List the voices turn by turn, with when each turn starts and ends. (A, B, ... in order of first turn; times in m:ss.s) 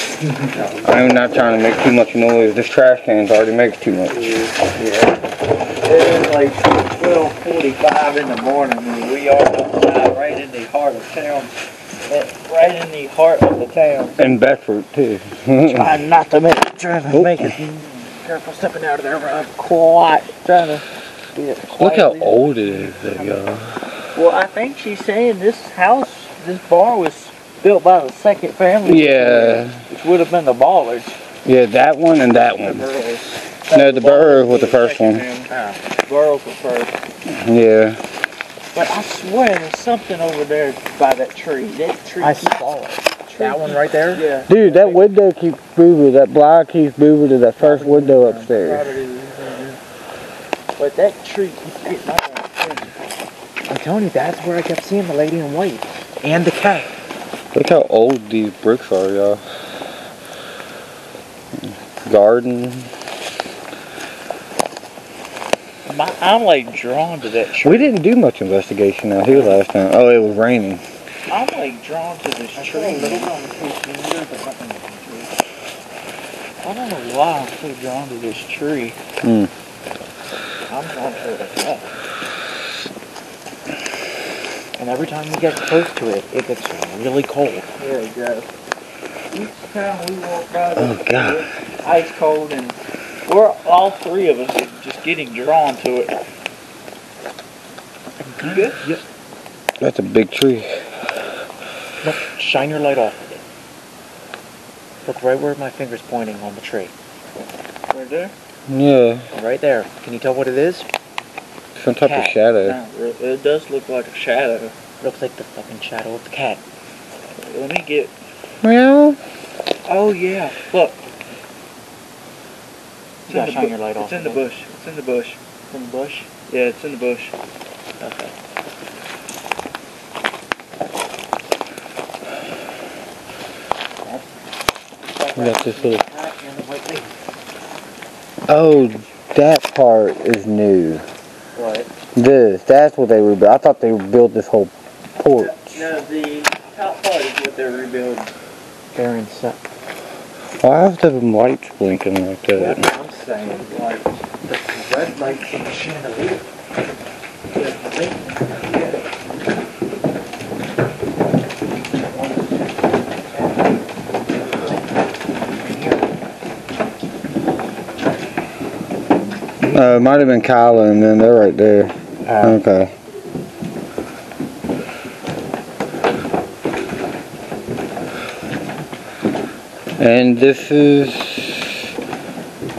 0:00.8-0:04.5 A
0:04.8-0:05.1 B
0:05.8-0:14.2 B
0:14.2-0:15.9 A
0:15.6-0:23.2 B
0:21.8-0:23.8 A
0:24.1-0:31.2 B
0:28.8-0:29.8 A
0:31.4-0:32.9 A
0:32.6-0:36.9 B
0:33.7-0:35.2 A
0:35.5-0:35.8 C
0:37.3-0:38.0 A
0:38.7-0:42.7 B
0:42.2-0:44.2 C
0:43.3-0:45.0 B
0:44.5-0:48.8 A
0:47.6-0:49.8 B
0:50.8-0:52.9 B
0:53.7-0:56.9 C
0:57.5-0:59.4 A
1:02.0-1:02.9 A
1:05.9-1:07.9 B
1:07.6-1:10.8 A
1:11.3-1:13.3 B
1:12.6-1:15.3 C
1:16.6-1:19.0 B
1:19.2-1:19.5 A
1:20.7-1:21.8 B
1:20.9-1:21.6 C
1:24.8-1:27.7 C
1:27.8-1:28.4 B
1:29.3-1:36.1 B
1:30.8-1:31.4 A
1:38.2-1:39.0 C
1:38.4-1:38.8 B
1:39.8-1:40.8 A
1:42.0-1:43.4 C
1:45.0-1:46.9 C
1:47.9-1:48.3 B
1:48.7-1:49.2 A
1:49.3-1:50.9 C
1:51.8-1:52.8 A
1:52.0-1:52.4 C
1:52.6-1:54.7 B
1:55.0-1:56.6 C
1:57.4-1:58.1 B
1:58.6-1:59.2 A
1:59.9-2:01.0 B
2:03.3-2:05.7 B
2:03.3-2:04.4 C
2:05.7-2:06.2 C
2:06.2-2:07.3 B
2:08.0-2:08.3 C
2:15.0-2:17.1 C
2:15.4-2:16.0 A
2:18.5-2:21.0 A
2:21.6-2:21.9 C
2:22.2-2:25.8 A
2:25.4-2:28.3 B
2:28.9-2:29.6 C
2:30.6-2:32.8 A
2:32.5-2:36.4 C
2:37.6-2:39.0 C
2:42.0-2:43.7 C
2:44.4-2:44.7 C
2:45.5-2:46.1 C
2:49.7-2:52.9 A
2:52.3-2:52.6 C
3:00.0-3:01.7 A